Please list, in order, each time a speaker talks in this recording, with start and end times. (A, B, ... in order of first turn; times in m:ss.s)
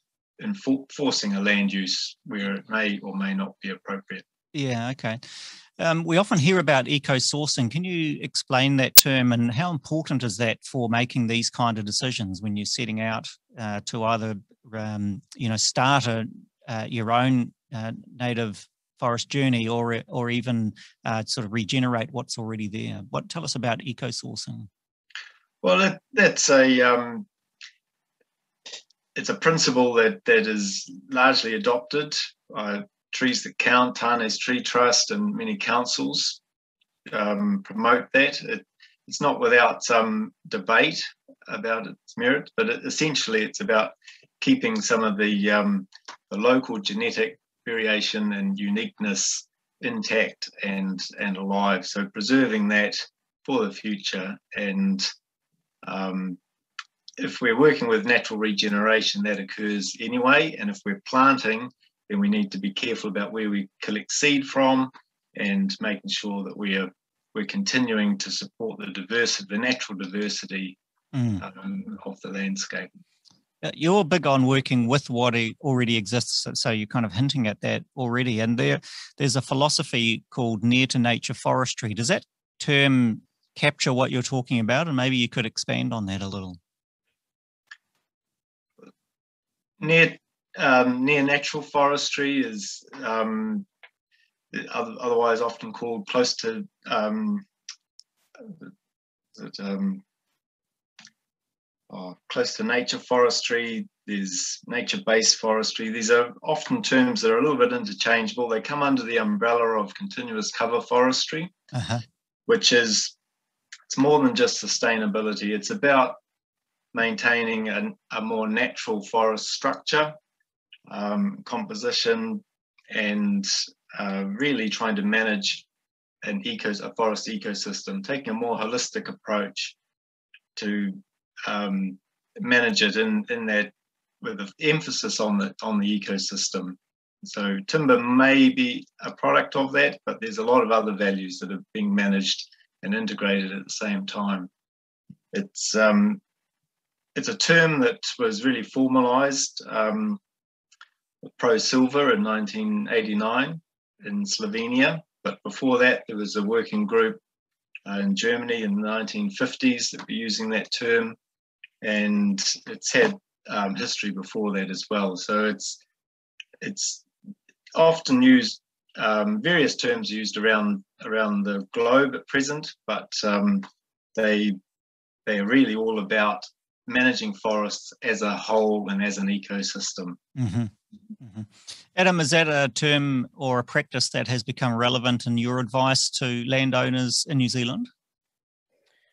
0:00.4-0:04.2 A
0:04.5-0:24.7 B
0:25.6-0:27.3 A
0:29.2-0:36.4 A
0:37.1-0:55.1 A
0:55.8-0:56.4 A
0:57.2-1:10.8 A
1:11.1-1:11.4 B
1:11.4-1:12.9 A
1:13.6-1:26.6 B
1:29.8-1:33.7 A
1:34.5-1:37.5 A
1:39.4-1:40.0 A
1:41.9-1:51.5 A
1:51.7-1:52.0 B
1:52.5-1:53.1 A
1:53.9-1:56.2 A
1:56.9-2:00.2 A
2:00.9-2:05.7 A
2:06.2-2:09.8 A
2:10.6-2:24.5 A
2:25.3-2:26.2 A
2:27.2-2:30.2 A
2:31.2-2:37.2 A
2:37.9-2:41.2 A
2:41.8-2:45.8 A
2:46.6-2:47.0 A
2:47.7-2:54.6 A
2:55.3-3:00.2 A
3:00.4-3:07.9 B